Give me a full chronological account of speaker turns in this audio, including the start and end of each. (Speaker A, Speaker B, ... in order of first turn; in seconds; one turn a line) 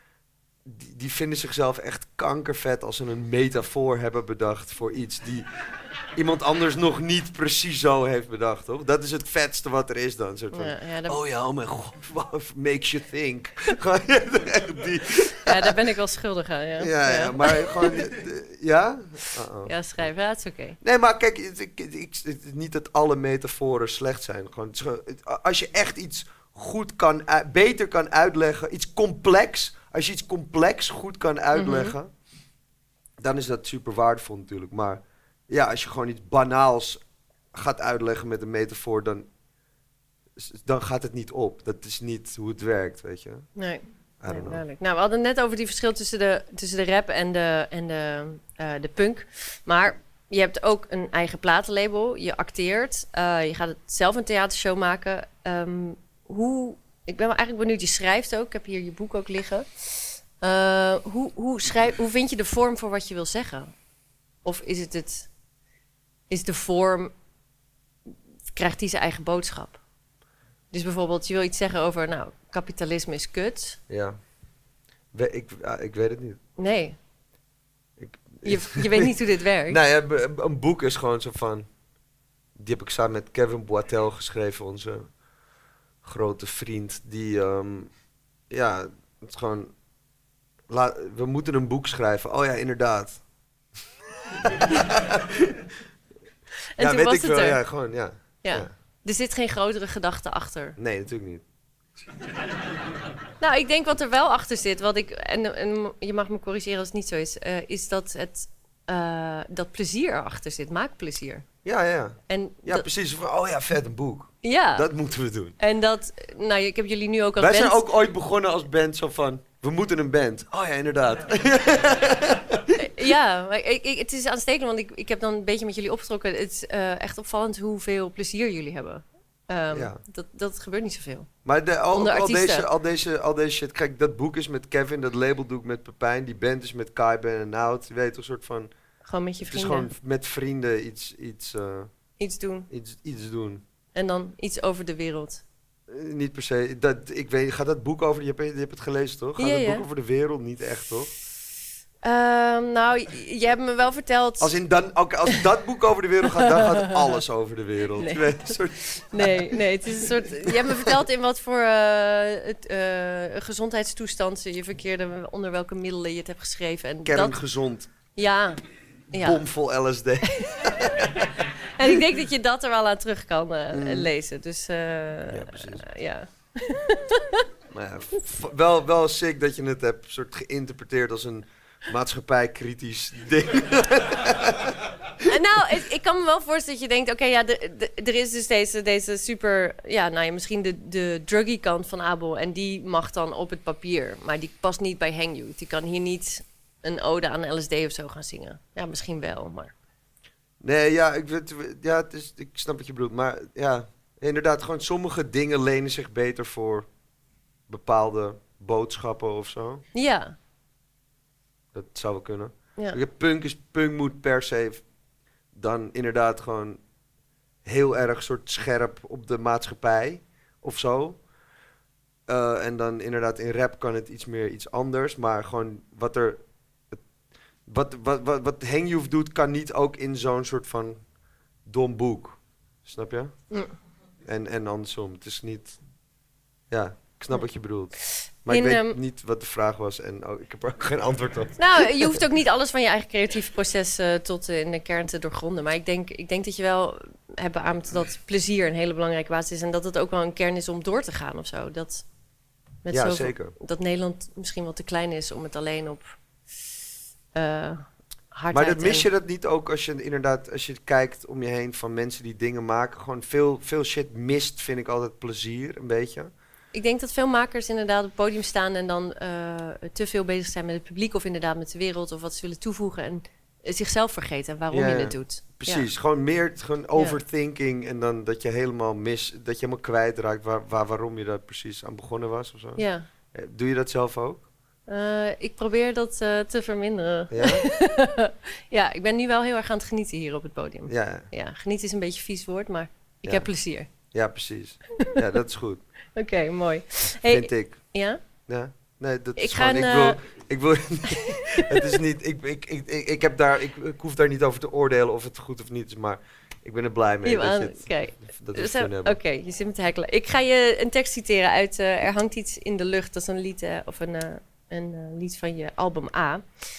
Speaker A: 0.6-5.5
Speaker A: 6.1-15.7
Speaker B: 10.5-11.2
Speaker B: 15.4-18.0
Speaker A: 16.8-19.7
Speaker B: 19.6-20.8
Speaker A: 20.8-32.1
Speaker B: 31.5-31.9
Speaker A: 33.2-37.0
Speaker A: 37.5-39.3
Speaker A: 40.4-43.5
Speaker B: 43.5-63.7
Speaker A: 44.2-44.6
Speaker B: 64.4-65.3
Speaker B: 66.3-67.1
Speaker B: 68.5-69.8
Speaker B: 70.7-73.8
Speaker A: 73.9-74.2
Speaker A: 75.1-76.4
Speaker B: 76.6-77.0
Speaker A: 78.0-79.1
Speaker B: 78.4-79.8
Speaker A: 79.7-81.7
Speaker A: 82.5-85.1
Speaker A: 86.0-87.9
Speaker A: 88.5-89.7
Speaker A: 90.7-93.2
Speaker A: 94.4-95.6
Speaker B: 96.8-97.6
Speaker A: 96.8-98.7
Speaker B: 98.4-100.8
Speaker A: 100.8-101.4
Speaker B: 103.4-111.5
Speaker A: 111.6-115.5
Speaker B: 112.3-112.9
Speaker B: 114.4-114.9
Speaker B: 115.6-117.8
Speaker A: 117.4-122.8
Speaker B: 122.8-131.3
Speaker A: 129.7-130.0
Speaker A: 131.4-138.7
Speaker B: 131.9-132.7
Speaker B: 139.0-139.9
Speaker A: 139.4-141.9
Speaker B: 142.2-142.7
Speaker A: 142.7-143.6
Speaker B: 143.9-145.4
Speaker A: 145.9-151.1
Speaker B: 149.4-149.8
Speaker B: 152.0-154.5
Speaker A: 154.4-161.0
Speaker B: 158.0-158.2
Speaker B: 158.9-167.4
Speaker A: 167.0-167.9
Speaker B: 168.1-168.6
Speaker B: 169.1-169.4
Speaker A: 169.1-171.3
Speaker B: 170.4-171.1
Speaker B: 171.6-177.4
Speaker A: 173.7-174.1
Speaker A: 175.3-175.8
Speaker A: 177.7-184.8
Speaker B: 185.2-199.7
Speaker A: 200.6-206.9
Speaker A: 207.7-209.8
Speaker B: 209.9-210.3
Speaker A: 211.7-214.8
Speaker A: 215.5-216.8
Speaker A: 217.6-221.2
Speaker A: 222.3-227.0
Speaker A: 227.7-231.0
Speaker A: 231.6-233.4
Speaker A: 234.2-235.8
Speaker A: 236.7-242.2
Speaker B: 238.1-239.0
Speaker B: 241.6-252.1
Speaker B: 252.8-256.1
Speaker A: 252.9-253.5
Speaker B: 257.3-259.1
Speaker A: 258.5-266.3
Speaker B: 266.7-275.9
Speaker A: 274.7-284.4
Speaker B: 282.8-283.1
Speaker B: 284.9-293.9
Speaker A: 287.3-287.6
Speaker A: 290.9-291.3
Speaker A: 294.1-295.8
Speaker B: 296.1-298.2
Speaker A: 297.3-297.9
Speaker A: 298.5-309.2
Speaker B: 299.4-300.2
Speaker B: 301.5-301.9
Speaker B: 307.2-316.4